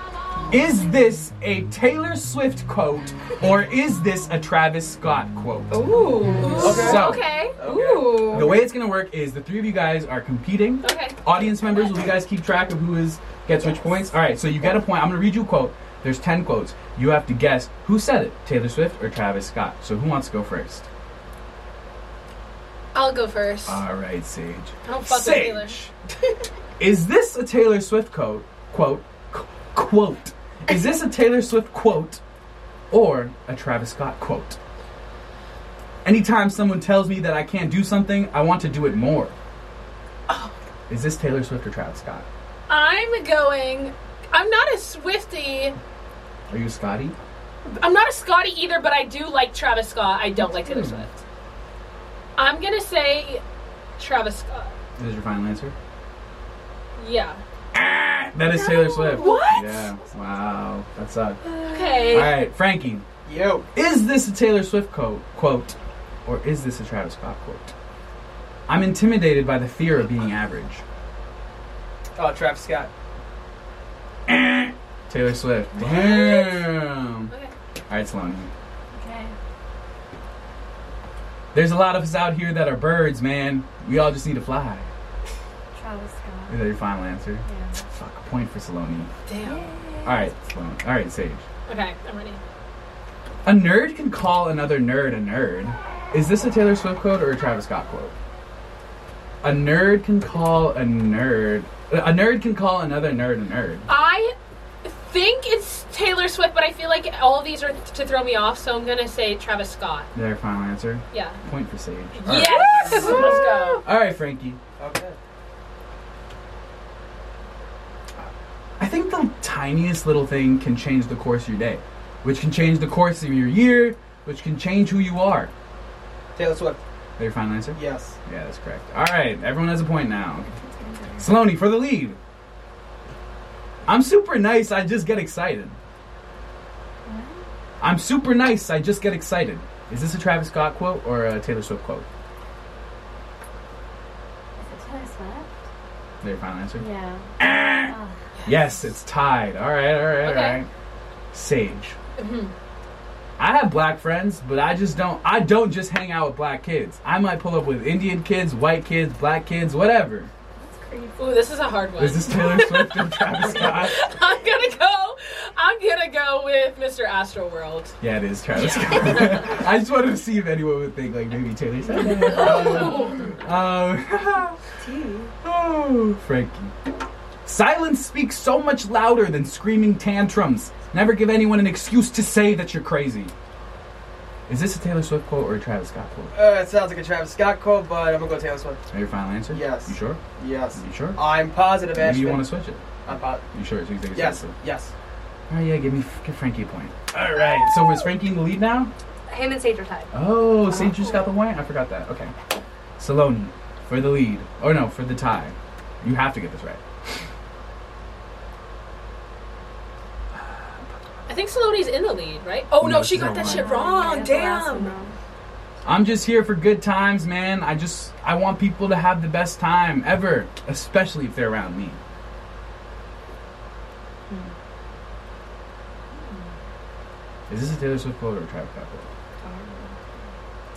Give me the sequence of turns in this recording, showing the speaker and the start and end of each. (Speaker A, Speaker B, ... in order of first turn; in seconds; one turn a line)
Speaker A: 0.5-5.7
Speaker B: 5.7-7.0
Speaker C: 6.2-7.6
Speaker D: 6.6-8.7
Speaker A: 6.6-7.3
Speaker B: 7.6-8.6
Speaker A: 8.3-20.9
Speaker C: 10.8-11.2
Speaker C: 22.9-23.8
Speaker A: 23.7-25.9
Speaker C: 24.9-25.8
Speaker A: 26.8-32.2
Speaker A: 32.9-34.6
Speaker A: 36.0-39.4
Speaker C: 40.3-40.5
Speaker A: 40.9-42.3
Speaker C: 42.7-45.8
Speaker A: 46.5-47.2
Speaker C: 47.7-51.1
Speaker A: 50.6-51.1
Speaker C: 52.4-53.4
Speaker C: 54.0-54.7
Speaker A: 55.0-55.7
Speaker C: 57.0-57.4
Speaker A: 57.7-61.4
Speaker B: 58.5-59.7
Speaker C: 59.1-59.6
Speaker B: 61.4-62.3
Speaker C: 61.7-62.4
Speaker A: 62.1-63.1
Speaker D: 63.3-63.7
Speaker A: 63.7-67.7
Speaker A: 68.7-70.8
Speaker D: 72.2-72.9
Speaker A: 74.3-77.3
Speaker C: 75.8-76.7
Speaker A: 77.9-78.5
Speaker B: 78.9-79.3
Speaker A: 81.5-84.9
Speaker B: 85.8-86.7
Speaker A: 86.5-89.1
Speaker B: 87.5-87.8
Speaker C: 89.3-89.7
Speaker B: 89.4-90.2
Speaker A: 90.0-91.4
Speaker C: 91.7-92.4
Speaker A: 93.5-98.1
Speaker A: 99.4-103.9
Speaker C: 103.9-110.1
Speaker A: 110.2-113.3
Speaker C: 111.1-111.4
Speaker C: 112.2-113.8
Speaker B: 113.0-113.7
Speaker A: 113.8-114.6
Speaker D: 114.8-115.2
Speaker A: 118.8-125.5
Speaker D: 126.4-126.8
Speaker A: 127.2-130.5
Speaker D: 127.8-128.2
Speaker B: 130.5-131.3
Speaker A: 131.2-132.2
Speaker A: 133.9-135.8
Speaker B: 137.1-137.4
Speaker A: 137.8-142.1
Speaker B: 144.6-145.5
Speaker A: 146.2-146.9
Speaker B: 146.8-147.3
Speaker A: 147.4-147.9
Speaker B: 147.9-148.2
Speaker A: 148.5-150.7
Speaker C: 150.2-150.6
Speaker A: 151.3-152.0
Speaker C: 152.2-152.5
Speaker A: 153.4-160.3
Speaker B: 160.6-161.3
Speaker C: 161.2-167.9
Speaker A: 162.0-164.0
Speaker A: 168.0-174.6
Speaker B: 171.9-173.3
Speaker C: 172.3-173.2
Speaker B: 174.8-175.3
Speaker A: 175.4-176.7
Speaker A: 177.4-183.3
Speaker A: 184.5-186.3
Speaker D: 186.3-188.8
Speaker A: 188.9-190.2
Speaker D: 189.5-192.5
Speaker A: 190.8-191.2
Speaker A: 191.9-192.8
Speaker D: 193.1-193.4
Speaker A: 193.5-194.6
Speaker D: 194.1-194.9
Speaker A: 195.5-198.9
Speaker A: 200.1-202.3
Speaker B: 200.7-201.2
Speaker A: 203.0-206.8
Speaker C: 211.3-215.0
Speaker A: 212.8-213.7
Speaker B: 213.4-215.1
Speaker A: 215.8-222.0
Speaker B: 226.1-226.4
Speaker A: 227.5-229.1
Speaker B: 229.4-229.9